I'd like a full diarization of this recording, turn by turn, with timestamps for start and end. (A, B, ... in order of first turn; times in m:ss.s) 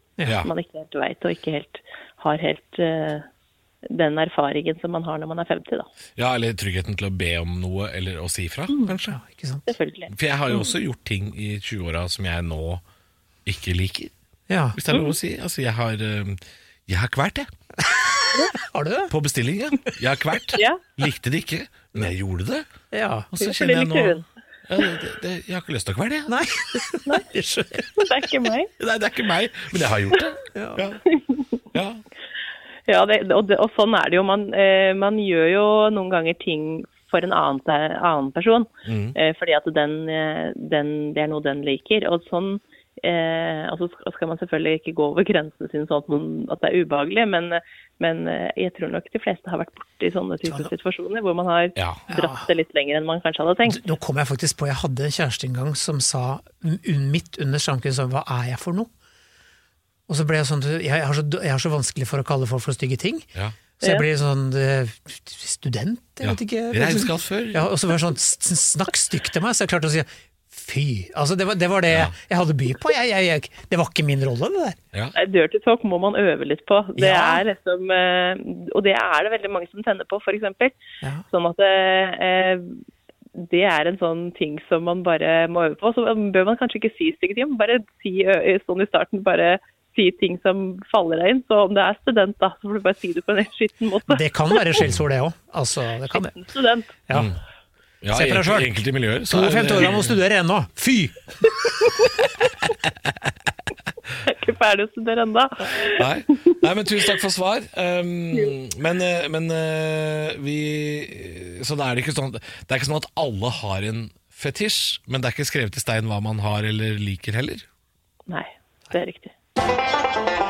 0:00.2-0:00.5 A
0:00.4-0:03.3 B
0:03.8-0:05.9 B
0:06.2-0:09.2 A
0:09.1-0:09.7 C
0:09.7-0:10.7 B
0:10.1-0:12.8 A
0:13.4-0:14.1 A
0:14.5-0:14.8 C
0:14.7-0:17.5 A
0:17.9-0:19.1 C
0:19.1-0:22.6 A
0:20.5-0:20.8 B
0:22.9-0:23.3 C
0:23.3-0:26.4 A
0:23.4-0:24.2 B
0:26.3-0:28.0 C
0:27.9-0:28.7 B
0:28.8-0:31.0 A
0:30.5-0:30.8 C
0:31.1-0:31.5 B
0:31.7-0:32.0 A
0:32.9-0:53.9 B
0:38.8-0:39.2 A
0:51.8-0:52.0 A
0:52.1-0:52.5 C
0:53.7-0:58.9 C
1:00.1-1:03.3 C
1:03.8-1:14.8 C
1:03.8-1:04.1 B
1:06.2-1:07.7 A
1:15.1-1:20.8 B
1:17.0-1:17.4 C
1:21.3-1:22.8 B
1:23.3-1:34.8 B
1:34.1-1:36.3 C
1:36.1-1:37.0 B
1:37.1-1:37.3 C
1:38.0-1:40.2 A
1:38.1-1:38.7 C
1:39.3-1:41.5 C
1:41.8-1:42.3 B
1:44.2-1:46.5 B
1:45.8-1:57.6 A
1:58.3-1:59.3 B